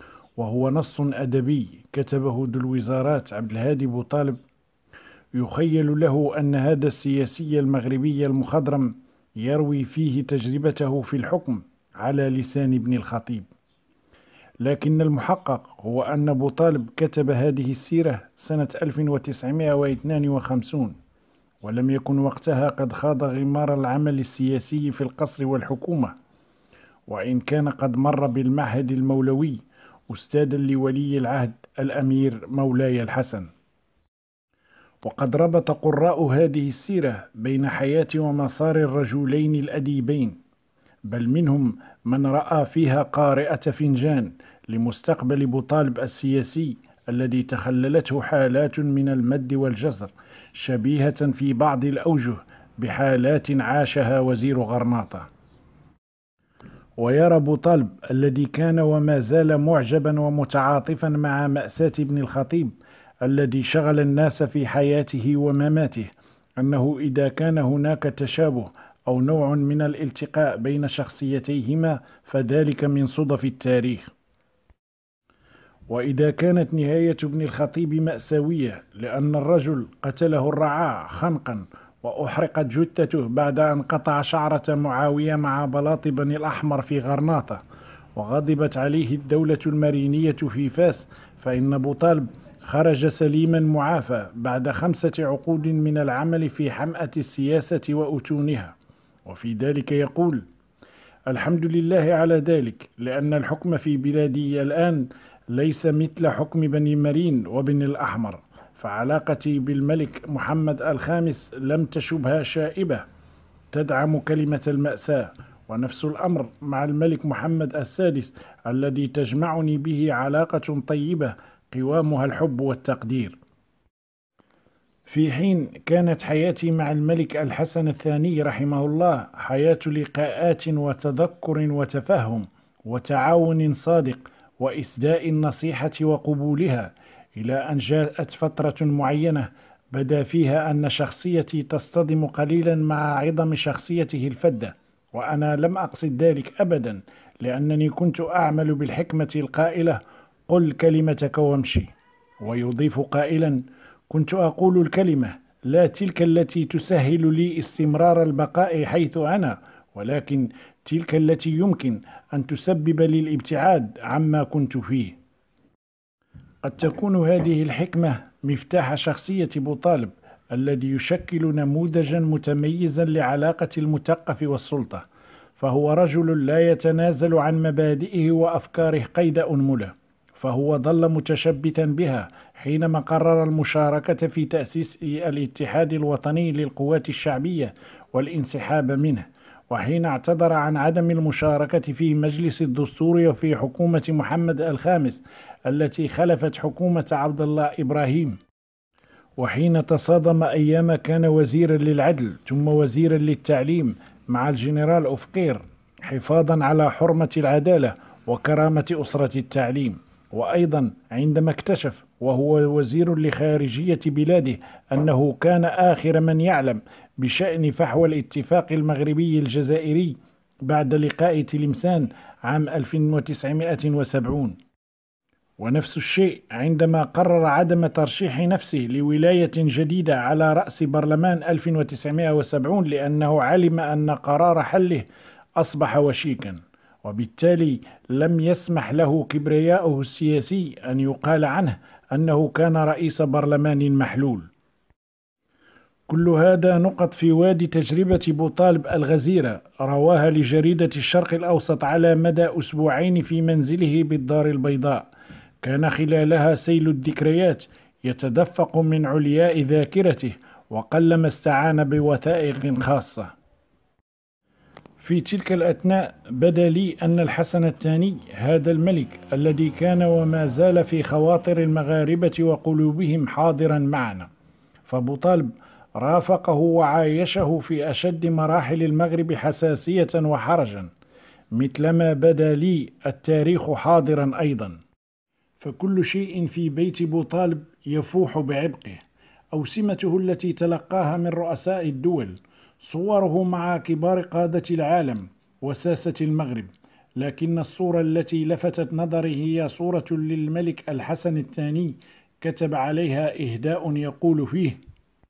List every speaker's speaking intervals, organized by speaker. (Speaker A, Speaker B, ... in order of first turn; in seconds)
Speaker A: 0.4-4.4, 5.3-13.5, 14.6-21.0, 21.6-26.1, 27.1-33.5, 35.0-40.4, 41.1-55.3, 57.0-74.1, 75.9-87.6, 88.1-98.7, 99.2-100.4, 101.3-113.0, 113.7-123.4, 125.1-165.2, 166.6-175.0, 175.6-198.4, 199.4-220.1, 220.7-224.6, 225.6-235.1, 235.6-244.5, 246.1-255.1, 255.6-263.3, 265.0-274.3, 274.9-280.9, 281.5-284.8, 285.6-289.0, 289.5-304.8